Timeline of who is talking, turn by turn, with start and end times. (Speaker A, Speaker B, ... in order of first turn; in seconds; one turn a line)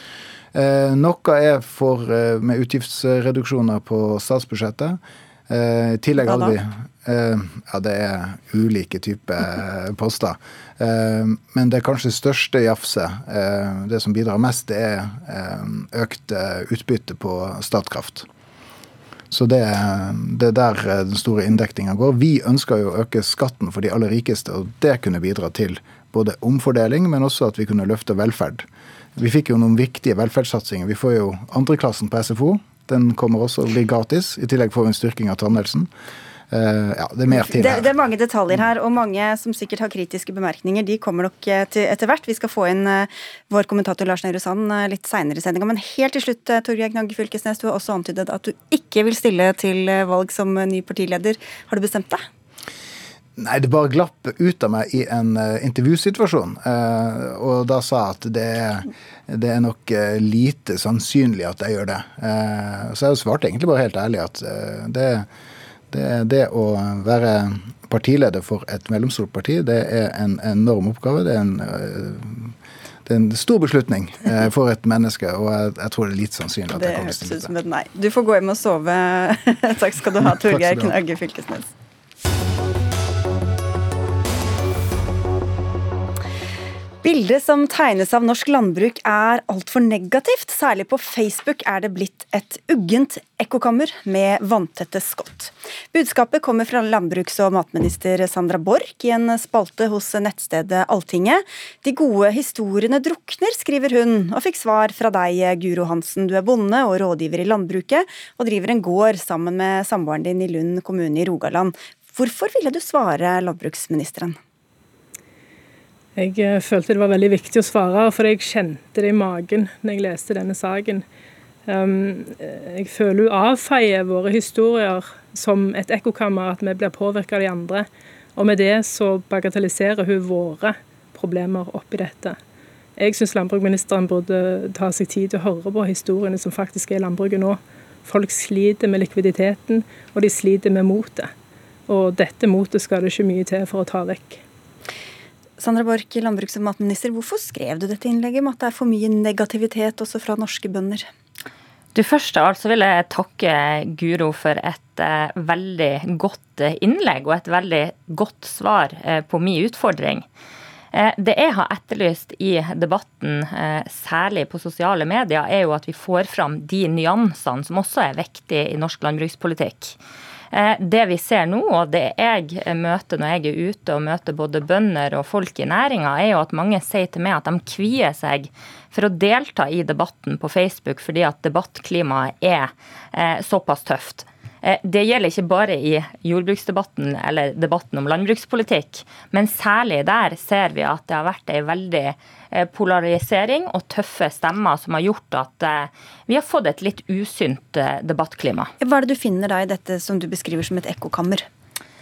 Speaker A: 0.5-18.3
Speaker B: 6.2-6.5
Speaker A: 19.3-35.9
Speaker A: 36.5-37.9
Speaker B: 37.3-52.2
Speaker A: 53.4-65.3
Speaker A: 65.9-72.5
Speaker A: 73.0-77.5
Speaker B: 76.7-81.7
Speaker A: 80.4-80.9
Speaker B: 87.0-114.4
Speaker C: 116.2-121.0
Speaker C: 121.7-132.4
Speaker C: 133.0-141.3
Speaker C: 141.9-144.4
Speaker B: 145.6-151.1
Speaker D: 151.9-160.2
Speaker D: 160.9-169.9
Speaker D: 170.5-198.7
Speaker B: 198.8-201.4